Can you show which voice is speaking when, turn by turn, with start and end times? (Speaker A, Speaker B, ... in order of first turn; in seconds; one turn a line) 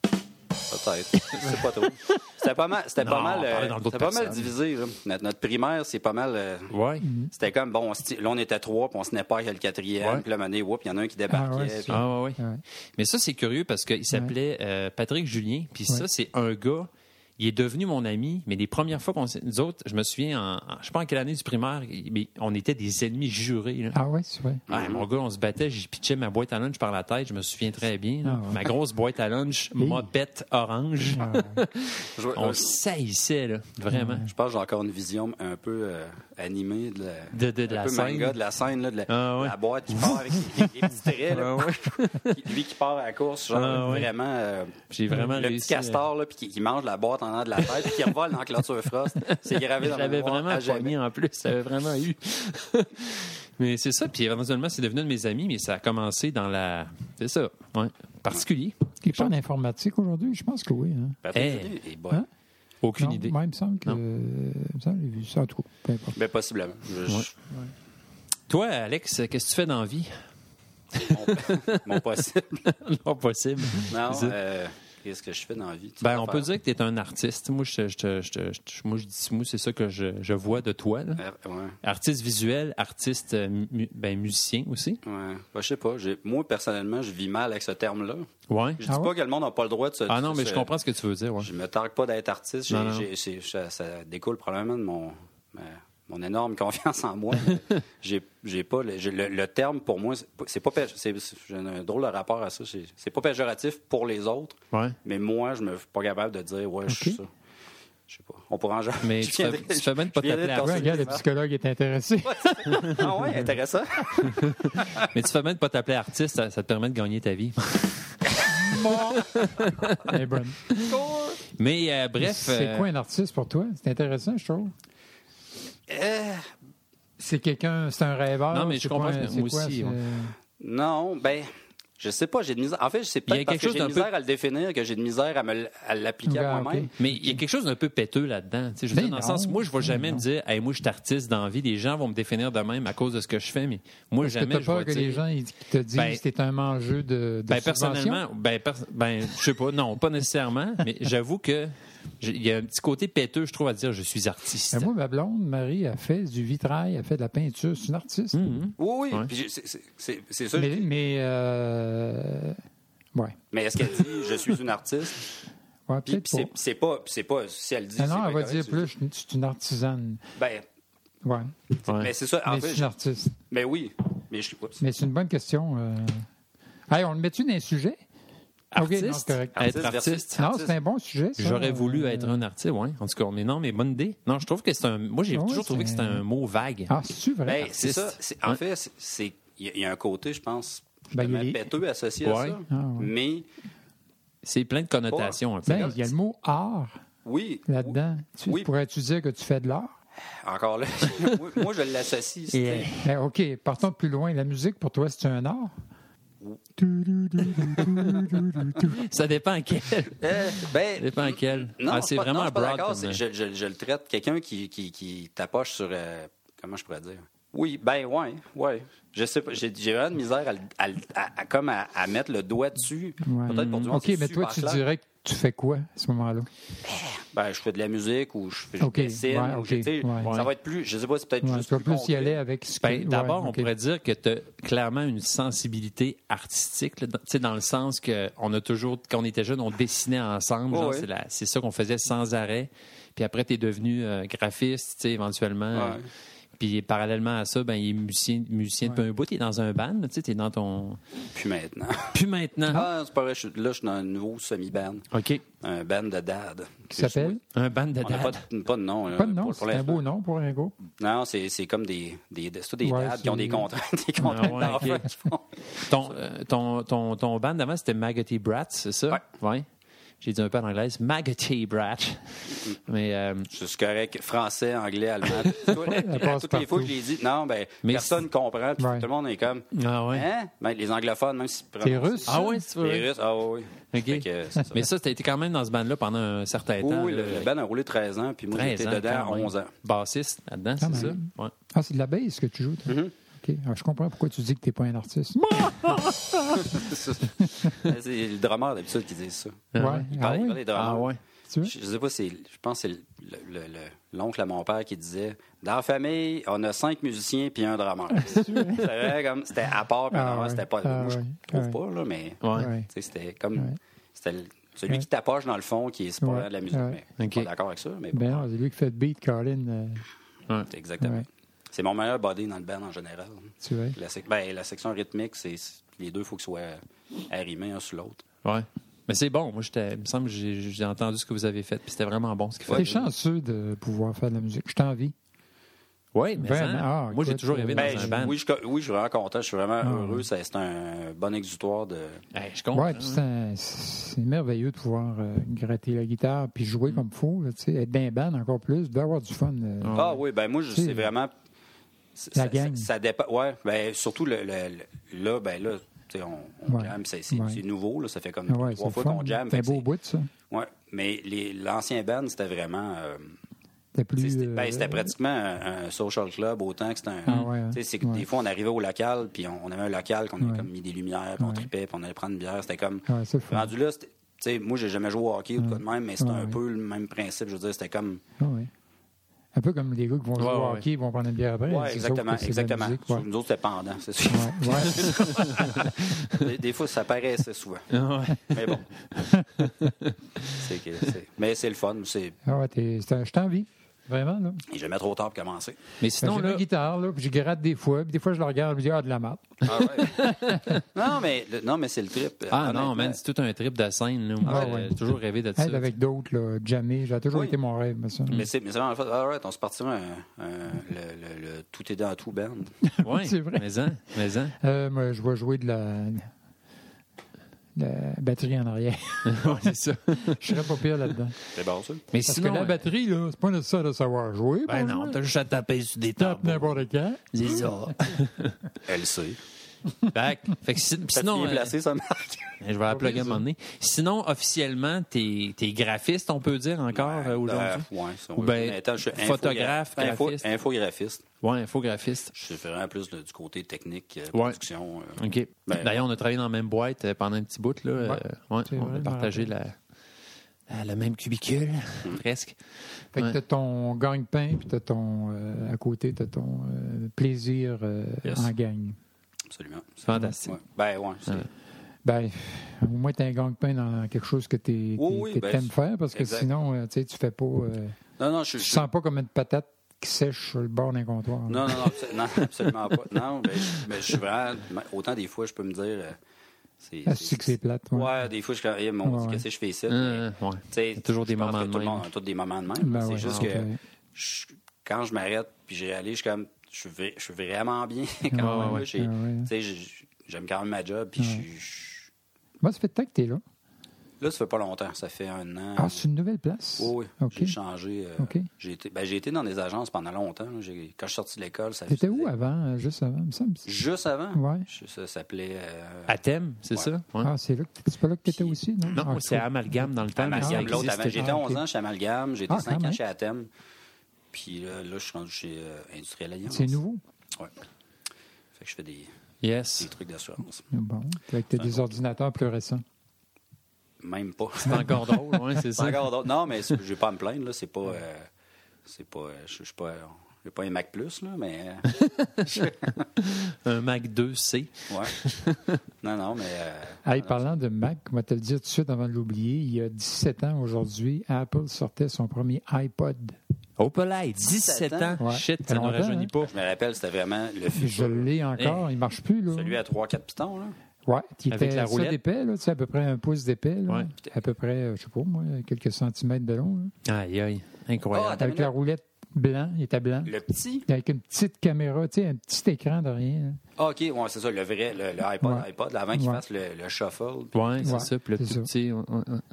Speaker A: 0.7-6.7
Speaker B: 1.3-2.3
Speaker B: 3.0-4.5
Speaker B: 6.7-7.0
Speaker C: 7.0-7.3
Speaker A: 7.3-12.0
Speaker C: 11.3-12.6
Speaker B: 11.9-12.4
Speaker B: 13.0-24.0
Speaker C: 23.9-24.6
Speaker A: 24.7-25.1
Speaker B: 24.7-34.3
Speaker C: 28.2-28.7
Speaker C: 29.8-30.1
Speaker C: 31.1-31.6
Speaker A: 32.2-32.7
Speaker C: 33.9-34.3
Speaker A: 34.3-51.0
Speaker B: 37.3-38.4
Speaker B: 39.1-42.4
Speaker B: 43.5-44.1
Speaker B: 44.9-46.0
Speaker B: 47.6-48.1
Speaker B: 49.2-59.3
Speaker C: 59.0-61.2
Speaker A: 61.2-62.2
Speaker B: 61.3-61.7
Speaker B: 62.8-63.3
Speaker C: 63.0-66.2
Speaker A: 66.1-67.3
Speaker B: 68.5-70.1
Speaker B: 70.9-72.0
Speaker A: 71.1-72.7
Speaker B: 72.7-74.4
Speaker A: 73.9-76.5
Speaker B: 76.0-81.2
Speaker A: 81.2-81.8
Speaker B: 81.8-85.0
Speaker A: 85.0-90.7
Speaker B: 88.5-88.8
Speaker B: 90.1-91.5
Speaker A: 91.4-107.3
Speaker B: 92.7-93.1
Speaker C: 106.9-107.2
Speaker A: 108.1-111.2
Speaker B: 109.0-111.0
Speaker C: 110.6-113.2
Speaker A: 112.2-115.1
Speaker B: 114.2-120.2
Speaker A: 118.5-119.2
Speaker C: 118.7-119.0
Speaker C: 120.0-120.6
Speaker B: 120.7-121.0
Speaker A: 120.8-121.4
Speaker B: 121.6-122.9
Speaker C: 122.2-124.7
Speaker A: 125.9-126.5
Speaker C: 127.2-130.3
Speaker B: 128.5-130.0
Speaker A: 130.6-136.9
Speaker B: 133.3-134.1
Speaker C: 136.3-137.4
Speaker B: 137.0-145.2
Speaker C: 138.9-140.2
Speaker C: 144.2-148.2
Speaker B: 145.9-146.2
Speaker B: 147.5-154.9
Speaker C: 154.7-158.4
Speaker B: 158.3-159.3
Speaker A: 158.8-160.9
Speaker C: 160.6-162.6
Speaker A: 163.5-165.2
Speaker C: 165.9-166.5
Speaker A: 166.1-168.9
Speaker C: 168.0-170.2
Speaker A: 170.4-170.7
Speaker C: 171.2-171.6
Speaker A: 171.9-174.8
Speaker C: 172.4-173.4
Speaker C: 174.8-176.3
Speaker C: 176.9-178.0
Speaker B: 178.7-180.4
Speaker C: 178.8-182.4
Speaker A: 179.6-180.7
Speaker B: 181.4-186.9
Speaker C: 185.3-186.2
Speaker C: 186.9-187.7
Speaker A: 187.5-193.5
Speaker B: 187.6-188.6
Speaker C: 191.1-191.7
Speaker B: 192.2-192.6
Speaker C: 192.7-193.1
Speaker B: 194.4-196.1
Speaker A: 195.1-195.9
Speaker C: 195.7-197.0
Speaker A: 197.2-198.7
Speaker C: 197.7-199.9
Speaker A: 200.3-202.9
Speaker B: 202.5-203.1
Speaker C: 203.0-205.7
Speaker C: 206.8-209.0
Speaker B: 207.8-208.1
Speaker B: 208.8-213.2
Speaker A: 210.2-224.8
Speaker C: 223.2-226.5
Speaker B: 223.5-223.9
Speaker A: 226.8-232.4
Speaker C: 228.8-230.3
Speaker B: 230.2-230.5
Speaker C: 231.4-233.7
Speaker B: 232.8-246.0
Speaker A: 240.7-241.1
Speaker A: 245.7-246.1
Speaker B: 246.6-251.0
Speaker A: 251.3-255.1
Speaker B: 252.1-252.9
Speaker B: 255.1-255.4
Speaker A: 255.6-257.4
Speaker C: 256.9-257.4
Speaker B: 257.5-258.4
Speaker A: 258.0-260.0
Speaker C: 259.1-260.8
Speaker A: 261.0-266.1
Speaker C: 262.8-264.8
Speaker B: 264.3-265.1
Speaker B: 265.8-269.6
Speaker B: 270.2-273.5
Speaker A: 273.5-284.9
Speaker C: 275.8-276.9
Speaker B: 277.8-278.2
Speaker C: 278.8-279.1
Speaker B: 279.7-280.3
Speaker C: 281.8-282.6
Speaker B: 282.3-283.1
Speaker B: 283.9-287.5
Speaker A: 286.8-289.7
Speaker B: 288.5-291.5
Speaker C: 290.8-296.9
Speaker A: 292.9-293.1
Speaker B: 295.7-296.1
Speaker A: 296.7-318.5
Speaker B: 299.7-300.1
Speaker C: 299.8-300.6
Speaker B: 300.7-301.2
Speaker C: 308.1-308.9
Speaker C: 310.1-311.8
Speaker B: 312.4-312.7
Speaker C: 312.5-312.9
Speaker C: 316.2-317.0
Speaker B: 317.2-317.5
Speaker C: 318.1-320.1
Speaker A: 320.7-328.2
Speaker C: 321.0-321.3
Speaker C: 323.6-324.0
Speaker B: 328.4-333.0
Speaker A: 332.7-333.1
Speaker C: 332.7-335.1
Speaker B: 336.1-338.4
Speaker C: 336.4-338.2
Speaker A: 337.8-342.2
Speaker C: 339.8-340.2
Speaker B: 342.3-343.2
Speaker C: 342.7-350.2
Speaker B: 349.8-350.2
Speaker A: 349.9-351.3
Speaker C: 350.7-351.1
Speaker A: 352.1-359.9
Speaker C: 352.3-352.9
Speaker C: 356.7-357.6
Speaker C: 358.5-360.3
Speaker A: 360.5-363.4
Speaker C: 363.9-365.1
Speaker A: 364.2-378.2
Speaker C: 367.3-368.2
Speaker C: 370.4-370.7
Speaker C: 371.4-371.7
Speaker C: 373.1-373.7
Speaker C: 375.6-376.6
Speaker C: 378.4-378.7
Speaker C: 379.6-383.2
Speaker B: 380.4-380.9
Speaker A: 381.7-387.9
Speaker C: 384.3-385.2
Speaker B: 385.0-386.4
Speaker B: 387.9-388.8
Speaker A: 388.5-388.9
Speaker C: 389.1-389.9
Speaker B: 389.6-390.6
Speaker A: 390.6-392.4
Speaker C: 392.4-394.6
Speaker A: 394.7-395.8
Speaker B: 396.0-396.6
Speaker C: 396.2-400.6
Speaker A: 399.6-400.3
Speaker B: 400.0-400.8
Speaker A: 400.9-403.2
Speaker B: 402.5-405.9
Speaker C: 404.4-405.0
Speaker A: 404.5-404.8
Speaker C: 405.6-408.4
Speaker A: 407.3-407.6
Speaker A: 408.3-412.7
Speaker C: 412.8-413.9
Speaker B: 413.0-414.6
Speaker C: 414.6-416.3
Speaker C: 417.8-419.7
Speaker B: 419.3-420.8
Speaker C: 420.2-421.4
Speaker A: 421.6-422.0
Speaker B: 422.1-422.9
Speaker C: 422.2-425.2
Speaker B: 424.7-428.6
Speaker C: 426.2-428.0
Speaker A: 428.9-429.4
Speaker B: 430.1-431.7
Speaker A: 431.1-432.6
Speaker B: 432.6-440.4
Speaker C: 432.9-433.4
Speaker A: 436.9-441.3
Speaker B: 441.4-442.3
Speaker A: 442.3-446.0
Speaker B: 444.3-444.6
Speaker B: 445.2-449.8
Speaker C: 448.0-449.5
Speaker B: 450.7-452.6
Speaker C: 453.1-459.0
Speaker A: 458.2-458.5
Speaker A: 459.5-461.5
Speaker B: 460.1-460.6
Speaker C: 462.1-468.0
Speaker A: 465.0-466.5
Speaker A: 468.2-468.9
Speaker C: 468.6-471.9
Speaker A: 471.5-476.2
Speaker B: 473.6-473.9
Speaker A: 476.8-492.1
Speaker C: 477.1-478.2
Speaker C: 479.0-479.4
Speaker B: 479.9-482.1
Speaker C: 482.8-483.8
Speaker B: 483.2-483.6
Speaker C: 488.3-489.5
Speaker B: 488.4-488.9
Speaker C: 491.2-491.4
Speaker C: 492.6-493.4
Speaker A: 494.2-496.0
Speaker C: 495.8-497.6
Speaker A: 496.8-502.3
Speaker C: 498.2-498.5
Speaker C: 501.9-503.7
Speaker A: 503.7-506.2
Speaker C: 504.3-504.7
Speaker B: 506.1-507.3
Speaker C: 507.2-511.6
Speaker A: 508.3-509.0
Speaker B: 508.9-511.5
Speaker A: 510.2-513.5
Speaker C: 512.5-513.0
Speaker A: 514.3-516.8
Speaker C: 516.5-517.0
Speaker A: 518.5-519.1
Speaker B: 519.4-519.9
Speaker A: 519.8-520.6
Speaker C: 520.7-522.8
Speaker A: 521.5-521.9
Speaker A: 524.0-525.1
Speaker B: 524.6-526.2
Speaker C: 524.7-525.6
Speaker A: 525.8-528.3
Speaker A: 528.9-531.9
Speaker B: 531.9-532.5
Speaker A: 532.4-533.0
Speaker B: 533.2-535.8
Speaker A: 536.0-537.5
Speaker C: 537.0-543.4
Speaker B: 543.8-546.5
Speaker A: 544.5-545.2
Speaker C: 545.2-546.3
Speaker A: 546.4-548.3
Speaker C: 547.8-549.8
Speaker B: 548.6-548.9
Speaker A: 549.5-550.8
Speaker C: 551.1-556.9
Speaker B: 551.5-552.2
Speaker B: 557.1-558.4
Speaker A: 558.1-558.7
Speaker C: 558.4-563.6
Speaker A: 560.2-560.9
Speaker A: 563.8-568.0
Speaker C: 565.4-566.4
Speaker B: 567.5-569.4
Speaker C: 567.8-568.7